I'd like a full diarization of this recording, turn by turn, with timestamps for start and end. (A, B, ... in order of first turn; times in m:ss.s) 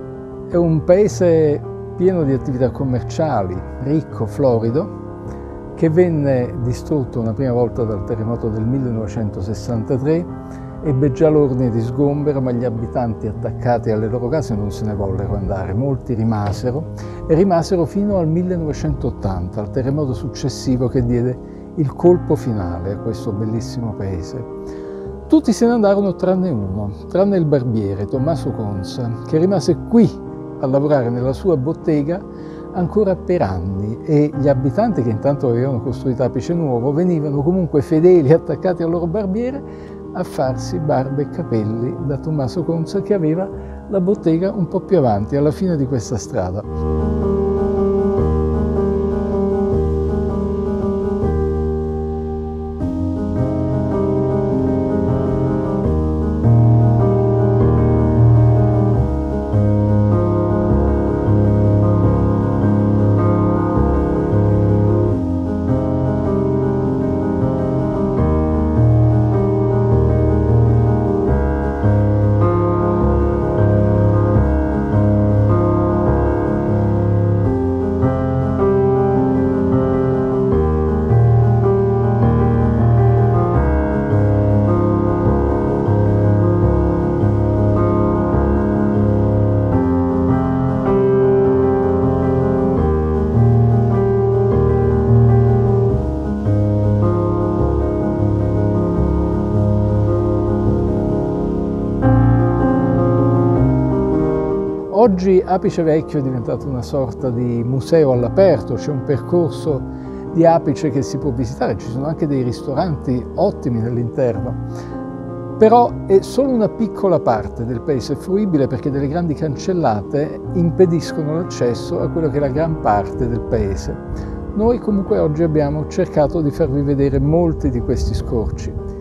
0:00.5-0:04.9 A
0:05.7-0:24.5 A
0:25.3-0:46.7 A
1:44.9-1:54.6 A
1:55.6-2:04.0 A
2:04.5-2:08.8 A